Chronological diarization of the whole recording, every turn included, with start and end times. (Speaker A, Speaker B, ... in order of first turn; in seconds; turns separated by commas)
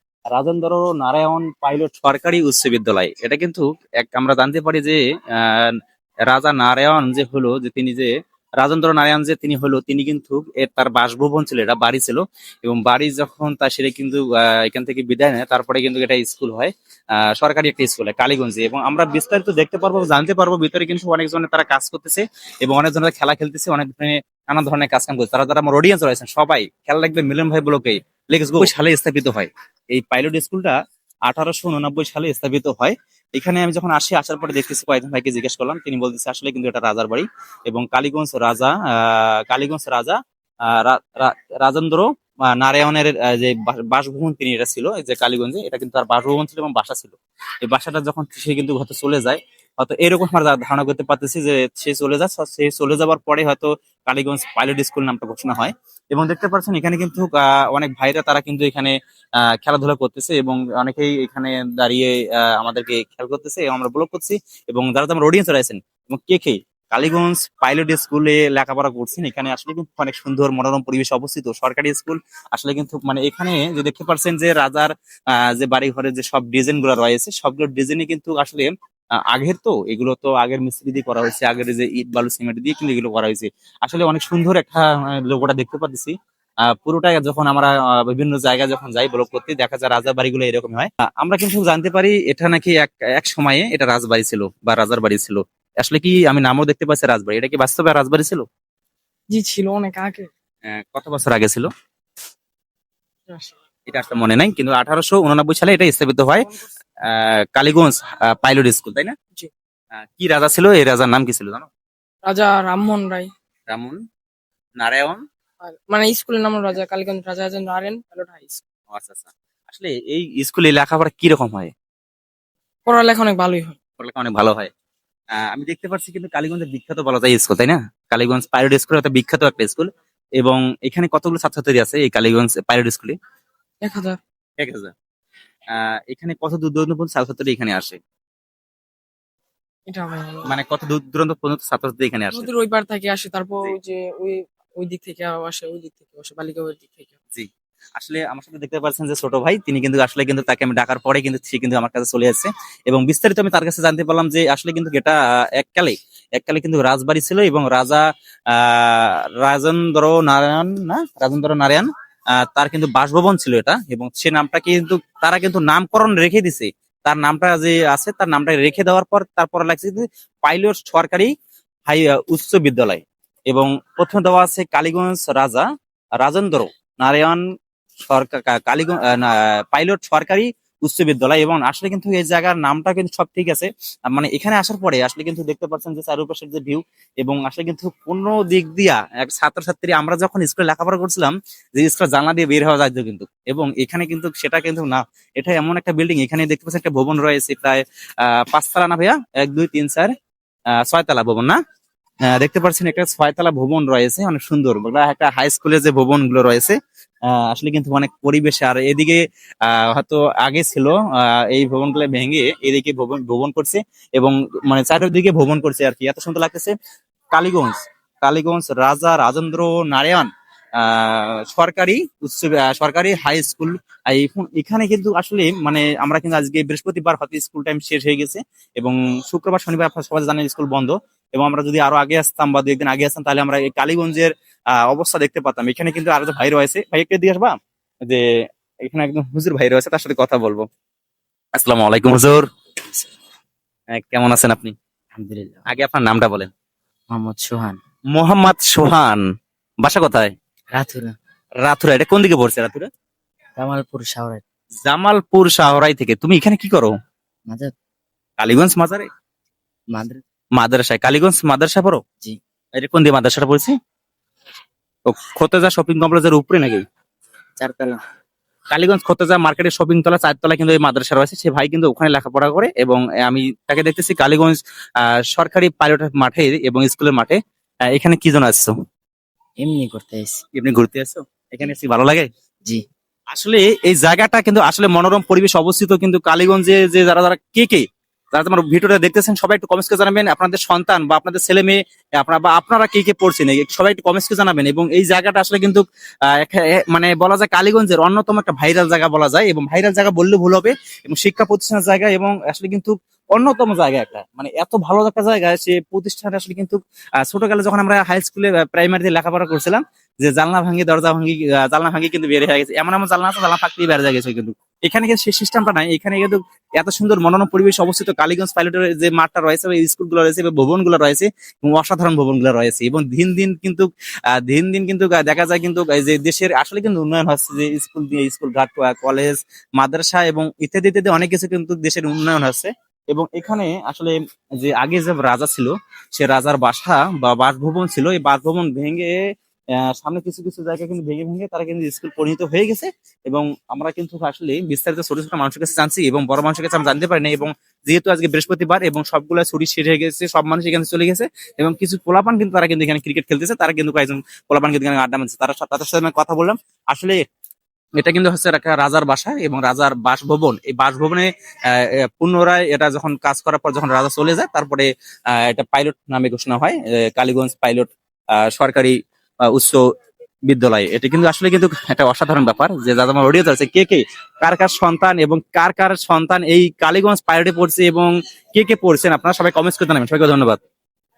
Speaker A: 0.3-30.7, Speaker A: 31.3-58.9, Speaker A: 59.6-78.7, Speaker A: 79.3-86.1, Speaker A: 86.7-98.5, Speaker B: 99.3-100.3, Speaker A: 100.7-101.7, Speaker B: 103.3-103.6, Speaker A: 103.9-106.5, Speaker A: 107.1-109.2, Speaker A: 110.0-111.7, Speaker B: 112.2-113.3, Speaker A: 113.7-114.0, Speaker A: 114.8-115.2, Speaker B: 115.6-118.6, Speaker A: 118.9-121.7, Speaker B: 122.9-123.8, Speaker A: 124.0-124.7, Speaker A: 125.3-133.2, Speaker B: 133.8-134.2, Speaker A: 134.6-134.9, Speaker A: 135.7-138.0, Speaker B: 139.9-140.5, Speaker A: 140.5-142.5, Speaker B: 142.3-147.2, Speaker A: 147.4-171.3, Speaker A: 171.9-175.7, Speaker A: 176.2-177.4, Speaker A: 178.1-200.1, Speaker A: 200.8-201.6, Speaker A: 202.3-206.8, Speaker A: 207.3-216.7, Speaker A: 217.3-234.3, Speaker A: 234.9-237.6, Speaker A: 238.8-240.7, Speaker A: 241.6-242.5, Speaker A: 244.0-244.7, Speaker C: 245.2-245.7, Speaker A: 245.7-246.5, Speaker C: 247.1-247.8, Speaker A: 248.2-249.2, Speaker A: 249.8-250.3, Speaker C: 250.7-251.1, Speaker A: 251.6-252.9, Speaker C: 253.6-254.4, Speaker A: 254.9-257.0, Speaker A: 258.4-259.1, Speaker C: 259.9-260.2, Speaker A: 260.6-262.0, Speaker A: 262.8-263.7, Speaker A: 265.1-266.8, Speaker C: 267.6-268.0, Speaker A: 268.7-277.4, Speaker A: 277.9-278.7, Speaker C: 279.6-280.4, Speaker A: 280.6-282.3, Speaker A: 283.3-339.2, Speaker A: 339.8-357.2, Speaker A: 358.0-369.8, Speaker A: 370.5-380.6